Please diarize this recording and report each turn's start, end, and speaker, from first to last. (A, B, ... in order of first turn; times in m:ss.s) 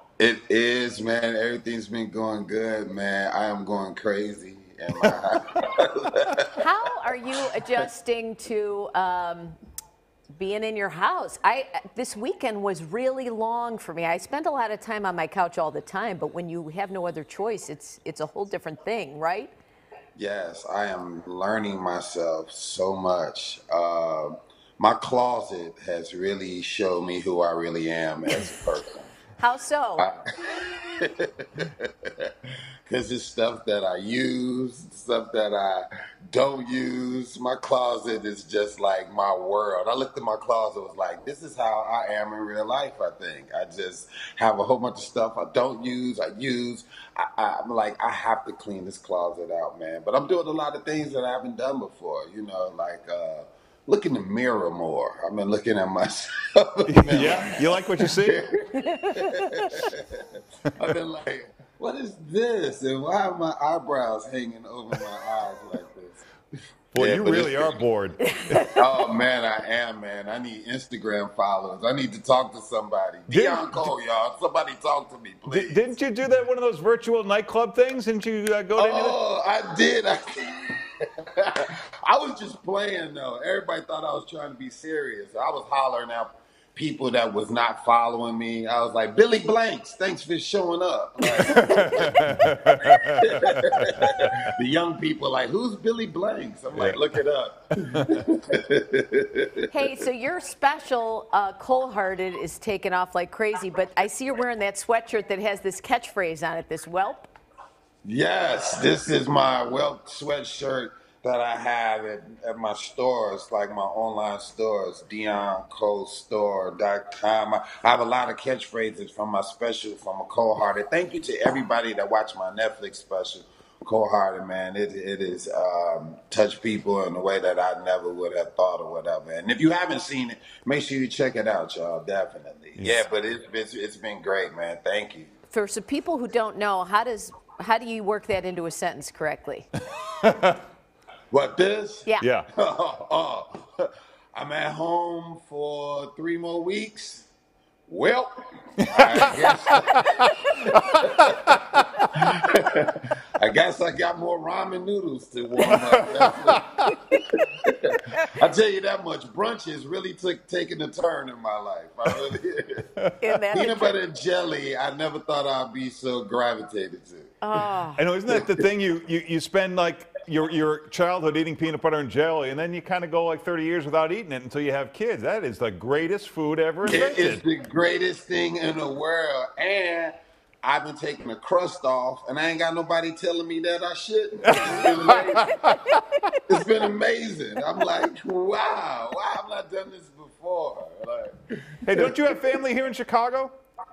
0:00.2-0:06.4 A
0:06.6-0:09.6 B
0:10.3-0:19.5 B
0:20.2-0:29.1 A
0:29.4-0:30.1 B
0:30.0-0:32.3 A
0:32.8-1:06.2 A
0:56.9-0:58.4 C
0:58.7-0:59.9 B
1:06.9-1:08.7 C
1:07.0-1:07.8 A
1:08.2-1:09.0 B
1:08.7-1:16.0 A
1:13.3-1:13.9 C
1:15.5-1:19.2 C
1:18.8-1:20.8 A
1:21.4-1:32.1 A
1:31.4-1:34.5 C
1:33.0-1:33.9 A
1:34.5-1:40.0 A
1:36.7-1:37.1 C
1:37.8-1:38.2 C
1:39.7-1:47.3 B
1:48.0-2:15.3 A
2:12.8-2:13.1 C
2:15.5-2:19.7 B
2:20.2-2:20.6 C
2:21.3-2:27.3 A
2:27.9-2:31.3 A
2:28.9-2:32.2 C
2:32.2-2:42.9 A
2:35.6-2:36.6 C
2:43.2-2:44.0 B
2:43.5-2:47.4 A
2:47.4-2:48.0 B
2:48.0-2:57.4 C
2:48.3-2:48.6 A
2:56.8-3:05.6 A
3:04.4-3:06.0 C
3:06.5-3:11.3 A
3:11.8-3:13.6 C